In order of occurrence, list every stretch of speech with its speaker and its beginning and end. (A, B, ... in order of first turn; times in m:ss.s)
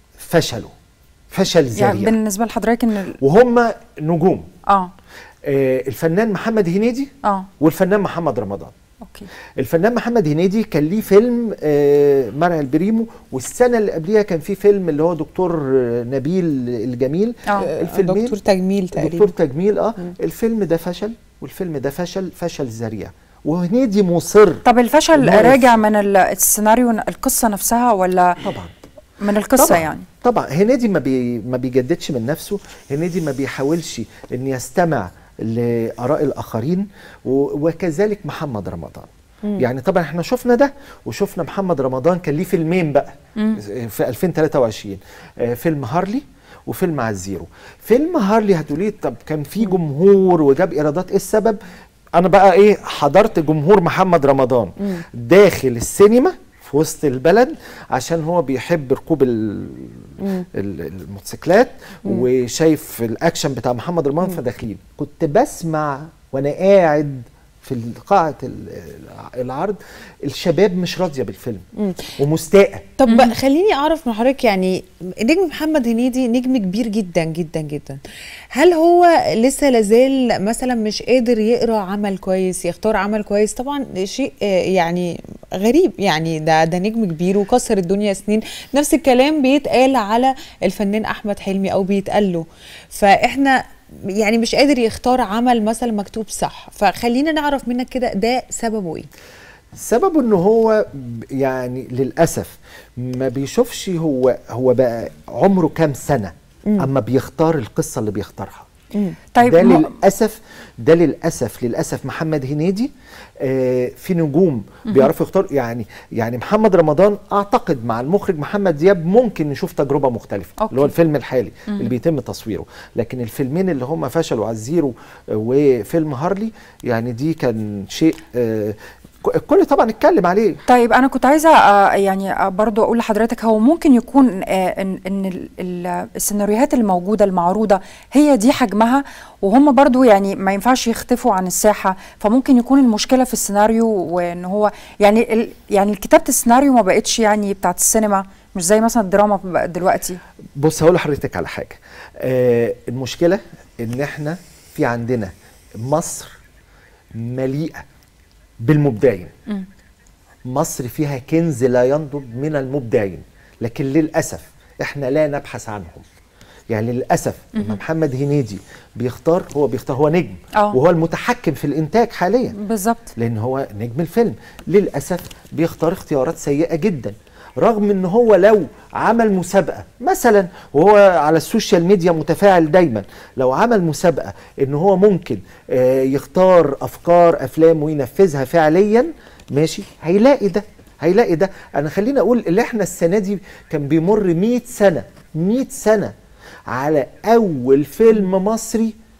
0:00.2-0:00.7 A
0:01.3-0:02.2 A
0:01.7-0:03.2 B
0:03.2-0:04.5 A
0:05.4-0:08.7 A
0:09.0-0:09.3 B
0:09.6-0:18.4 A
0:17.6-0:19.3 C
0:18.9-0:24.6 A
0:24.6-0:28.4 B
0:25.1-0:25.8 A
0:28.4-0:28.7 A
0:29.2-0:30.0 B
0:29.6-0:51.6 A
0:52.2-1:12.9 A
1:00.2-1:00.4 C
1:11.8-1:12.1 C
1:13.0-1:18.0 C
1:13.1-1:13.3 B
1:18.5-1:33.6 C
1:34.2-1:39.1 C
1:39.8-1:48.7 A
1:49.3-1:49.9 B
1:49.4-2:10.6 A
2:00.6-2:00.9 B
2:01.7-2:01.9 B
2:10.7-2:30.2 B
2:30.6-2:35.3 A
2:35.8-2:36.3 A
2:37.2-2:37.8 A
2:38.6-2:39.3 A
2:40.5-2:46.0 A
2:46.7-2:52.5 A
2:47.5-2:47.8 B
2:52.6-2:53.1 B
2:53.2-3:16.1 A
3:16.7-3:18.9 A